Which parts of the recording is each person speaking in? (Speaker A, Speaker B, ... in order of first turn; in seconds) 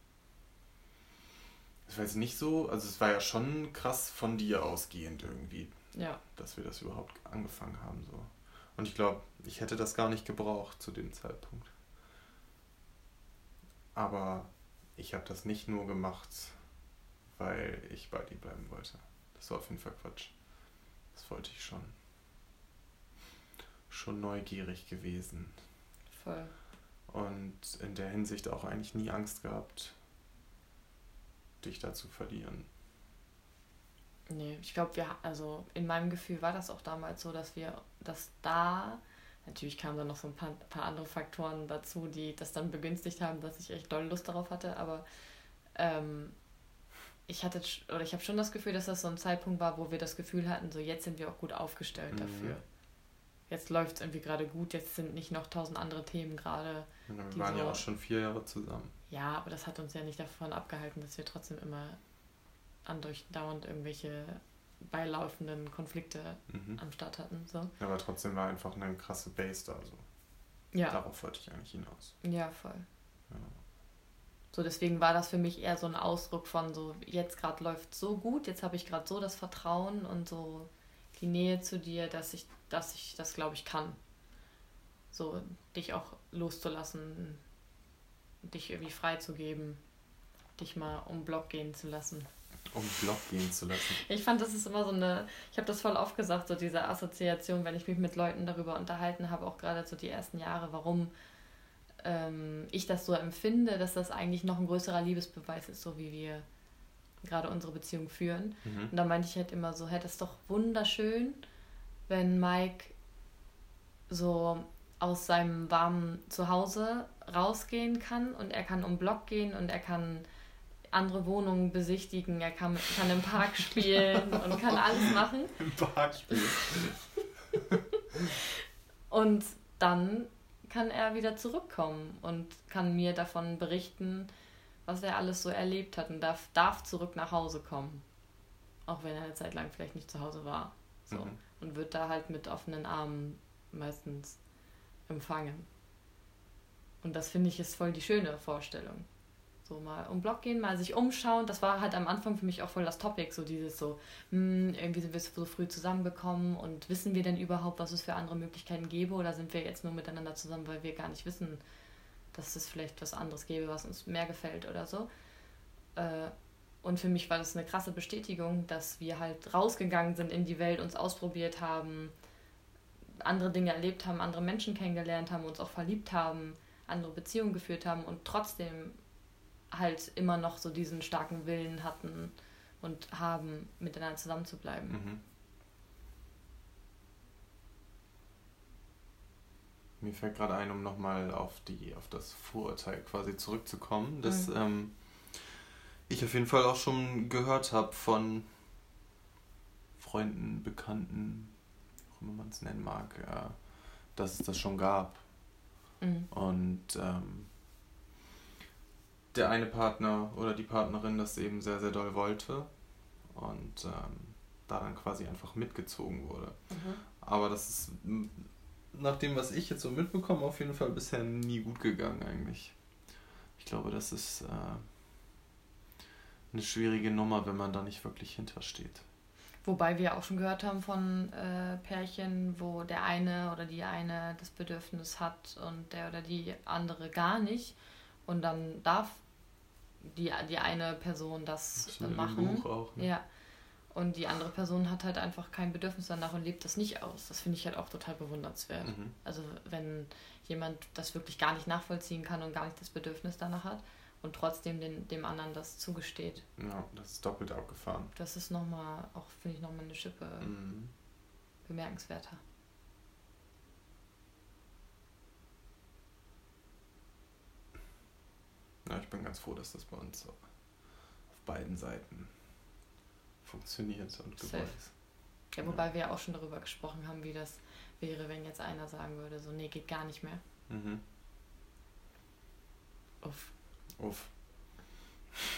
Speaker A: 1.9-11.7, 13.9-16.7, 17.3-20.6, 21.1-21.9, 23.9-25.6, 27.1-30.0, 31.6-32.7, 52.1-52.6, 57.1-58.9, 66.5-66.8, 67.8-70.0, 70.9-72.2, 73.3-73.6, 92.7-94.0, 108.6-108.9, 125.6-127.8, 141.1-141.4, 184.9-185.2, 190.0-198.7, 200.0-201.6, 202.1-205.7, 206.3-207.5, 209.3-222.9, 223.5-224.9, 226.5-229.0, 241.8-243.1, 248.8-249.1, 256.6-258.1, 260.4-260.9, 268.8-272.6, 273.4-275.0, 275.6-275.9, 280.7-281.0, 284.0-284.9
Speaker B: 5.9-6.2, 26.1-26.5, 34.3-45.0, 45.6-46.5, 47.3-52.7, 53.5-57.8, 59.1-62.0, 62.9-67.7, 70.7-71.0, 72.2-72.8, 74.5-84.0, 85.1-87.4, 88.4-89.8, 90.6-92.3, 93.9-101.1, 102.0-106.5, 107.2-111.4, 112.1-112.9, 114.1-120.2, 120.9-125.7, 129.1-134.3, 134.9-138.1, 138.8-144.4, 145.1-145.7, 147.0-149.1, 149.6-161.6, 162.3-165.1, 165.9-172.1, 173.2-179.0, 179.7-185.0, 206.0-206.3, 216.7-217.0, 229.6-239.2, 240.0-256.4, 258.1-260.6, 261.6-262.4, 274.4-280.4, 283.2-283.5